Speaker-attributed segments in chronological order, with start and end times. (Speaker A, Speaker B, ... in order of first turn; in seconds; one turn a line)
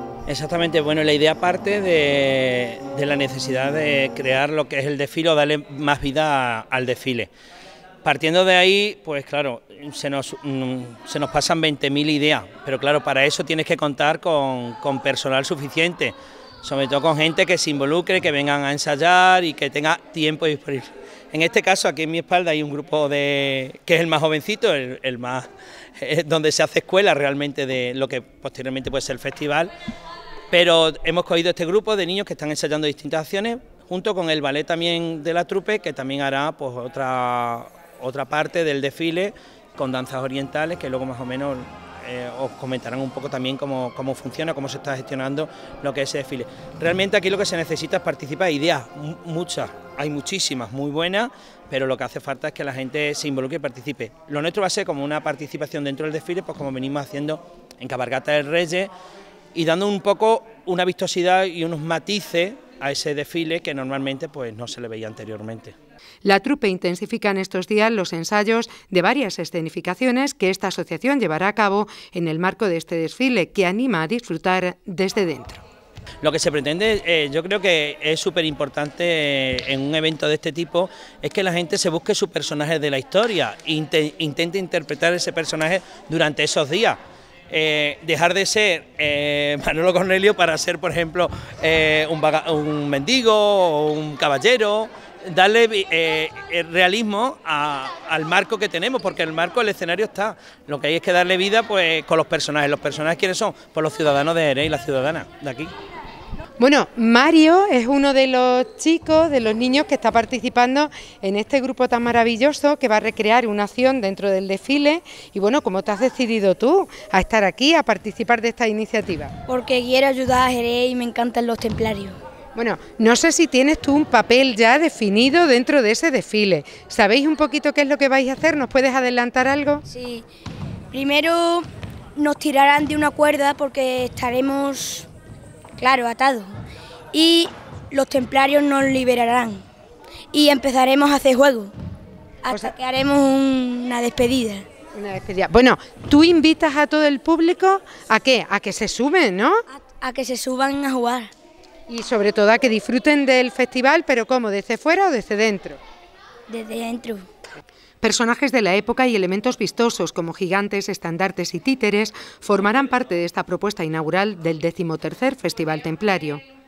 Speaker A: 0.3-7.3
Speaker A: 8.0-25.5
Speaker A: 26.0-29.7
Speaker A: 30.5-58.9
Speaker A: 59.5-65.7
Speaker B: 66.2-75.6
Speaker A: 76.2-87.0
Speaker A: 87.5-105.7
Speaker B: 106.6-119.3
Speaker C: 119.5-122.2
Speaker B: 122.5-129.8
Speaker C: 129.9-130.2
Speaker C: 130.9-135.1
Speaker C: 135.8-136.5
Speaker C: 137.1-139.6
Speaker C: 140.3-141.7
Speaker C: 142.4-144.7
Speaker B: 144.9-149.6
Speaker C: 149.7-151.3
Speaker B: 151.9-155.8
Speaker C: 156.5-157.3
Speaker B: 158.0-166.4